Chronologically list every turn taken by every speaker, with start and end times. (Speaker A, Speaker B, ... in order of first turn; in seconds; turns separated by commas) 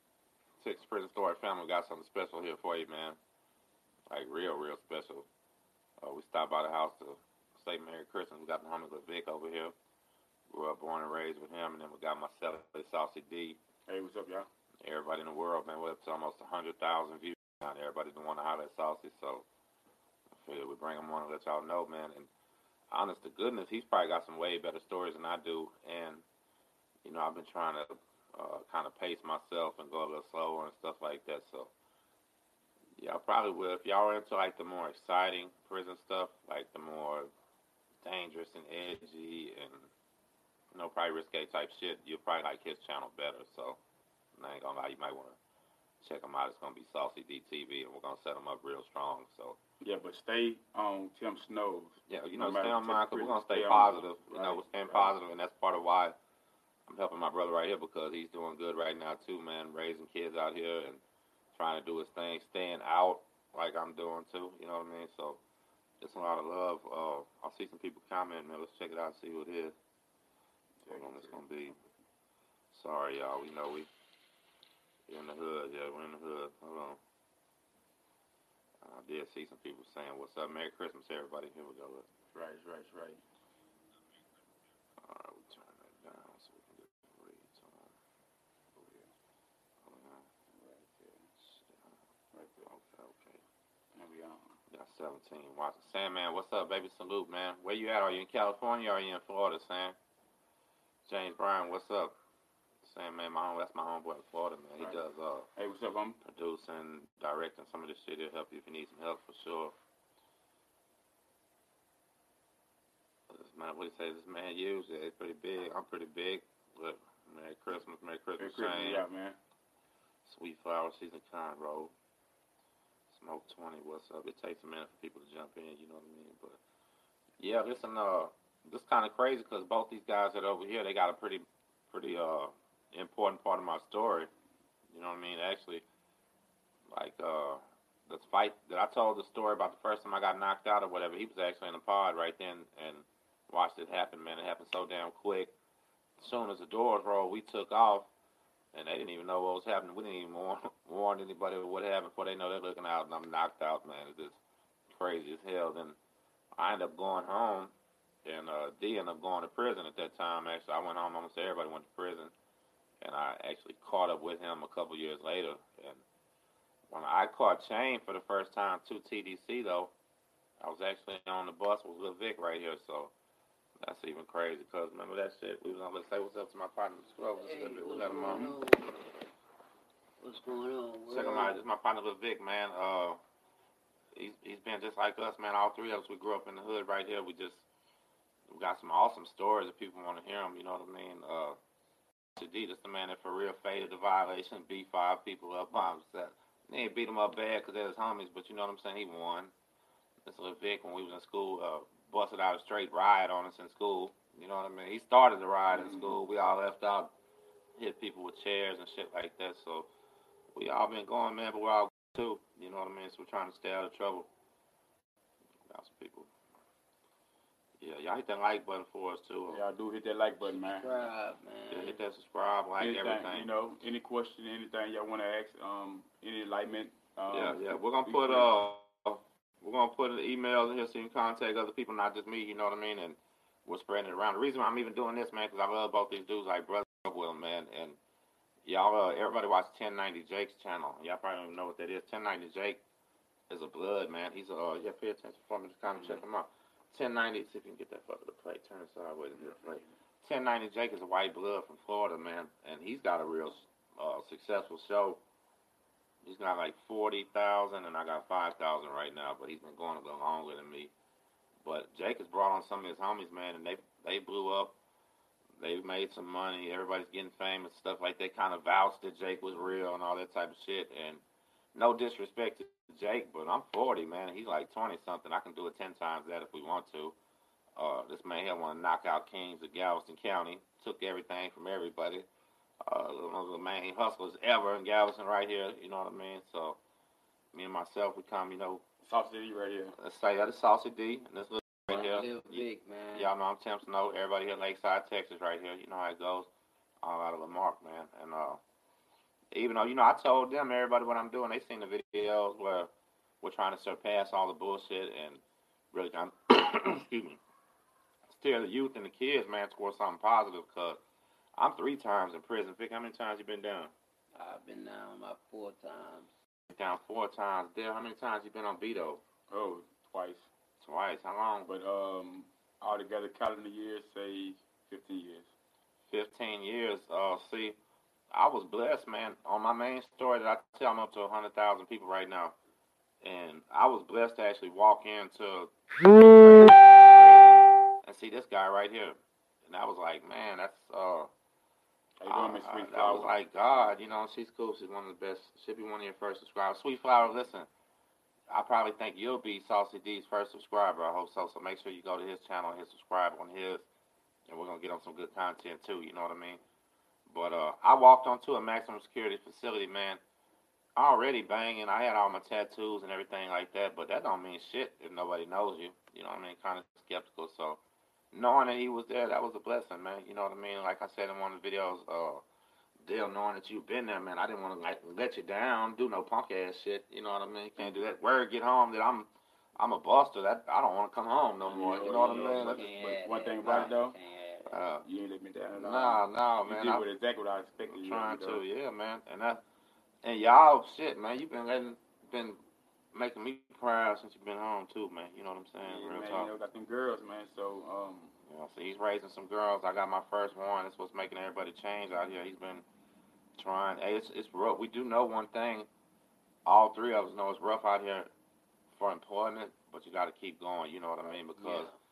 Speaker A: 0.6-3.2, Speaker A: 4.1-5.2, Speaker A: 6.0-9.7, Speaker A: 10.5-13.6, Speaker B: 13.9-14.5, Speaker A: 14.8-19.4, Speaker A: 20.4-22.3, Speaker A: 22.9-26.2, Speaker A: 27.0-31.7, Speaker A: 33.0-37.3, Speaker A: 38.0-39.9, Speaker A: 40.7-43.8, Speaker A: 44.4-45.4, Speaker A: 46.0-49.6, Speaker B: 49.8-55.1, Speaker A: 52.1-56.1, Speaker A: 56.9-61.0, Speaker A: 61.5-65.4, Speaker A: 66.0-69.7, Speaker B: 70.8-71.4, Speaker A: 70.9-71.8, Speaker A: 72.7-73.9, Speaker A: 75.1-77.0, Speaker A: 78.8-82.1, Speaker B: 82.3-83.2, Speaker A: 85.0-87.9, Speaker B: 88.7-89.1, Speaker A: 89.8-90.2, Speaker B: 90.5-91.2, Speaker A: 91.4-91.9, Speaker B: 92.3-92.7, Speaker A: 92.6-93.4, Speaker B: 94.0-94.5, Speaker A: 94.7-100.0, Speaker A: 101.0-102.2, Speaker A: 102.8-105.5, Speaker B: 105.5-106.2, Speaker A: 106.2-109.7, Speaker A: 113.3-119.0, Speaker B: 118.4-119.4, Speaker A: 120.2-121.9, Speaker A: 123.1-126.6, Speaker A: 127.4-134.3, Speaker A: 134.9-135.8, Speaker A: 136.9-145.5, Speaker A: 146.2-148.1, Speaker A: 148.7-154.4, Speaker A: 154.9-156.0, Speaker A: 156.6-157.7, Speaker A: 158.2-162.3, Speaker A: 163.0-166.0, Speaker A: 166.9-169.9, Speaker A: 170.6-173.1, Speaker A: 173.8-178.5, Speaker C: 177.4-179.0, Speaker B: 178.2-178.5, Speaker C: 180.2-181.6, Speaker A: 181.1-183.2, Speaker A: 184.1-187.7, Speaker A: 188.5-191.6, Speaker A: 192.3-199.5, Speaker A: 200.2-207.1, Speaker B: 205.7-206.1, Speaker A: 207.8-209.9, Speaker A: 210.5-214.3, Speaker A: 215.7-216.3, Speaker A: 217.8-219.6, Speaker B: 219.5-220.9, Speaker C: 220.4-222.0, Speaker A: 221.7-223.5, Speaker B: 222.8-228.5, Speaker A: 227.3-238.0, Speaker A: 238.6-242.8, Speaker A: 243.5-255.2, Speaker B: 249.4-249.7, Speaker A: 256.2-260.9, Speaker A: 261.6-264.7, Speaker A: 265.6-271.2, Speaker A: 271.7-277.1, Speaker A: 277.8-282.3, Speaker A: 282.8-286.8, Speaker A: 287.5-288.8, Speaker B: 289.0-289.9, Speaker A: 290.0-296.5, Speaker C: 291.9-293.3, Speaker A: 297.0-298.6, Speaker A: 299.5-302.9, Speaker A: 303.4-305.4, Speaker A: 305.9-307.4, Speaker A: 308.3-311.0, Speaker A: 311.6-313.9, Speaker C: 314.3-316.3, Speaker A: 316.7-319.2, Speaker B: 319.5-320.4, Speaker A: 320.8-321.7, Speaker B: 321.6-325.5, Speaker A: 326.1-327.8, Speaker A: 328.3-332.5, Speaker A: 333.2-341.3, Speaker B: 342.2-343.3, Speaker A: 342.2-347.7, Speaker A: 348.5-353.9, Speaker A: 354.5-356.6, Speaker A: 357.3-360.2, Speaker A: 360.9-367.8, Speaker A: 368.3-372.4, Speaker A: 373.0-383.9, Speaker C: 381.7-384.8, Speaker B: 381.7-384.1, Speaker A: 384.6-385.0, Speaker B: 385.0-388.6, Speaker A: 385.8-387.0, Speaker A: 387.9-389.6, Speaker A: 390.2-392.6, Speaker A: 393.1-396.5, Speaker B: 395.8-398.3, Speaker A: 398.5-402.8, Speaker A: 403.6-405.9, Speaker A: 406.6-408.3, Speaker A: 408.9-411.9, Speaker C: 411.3-411.9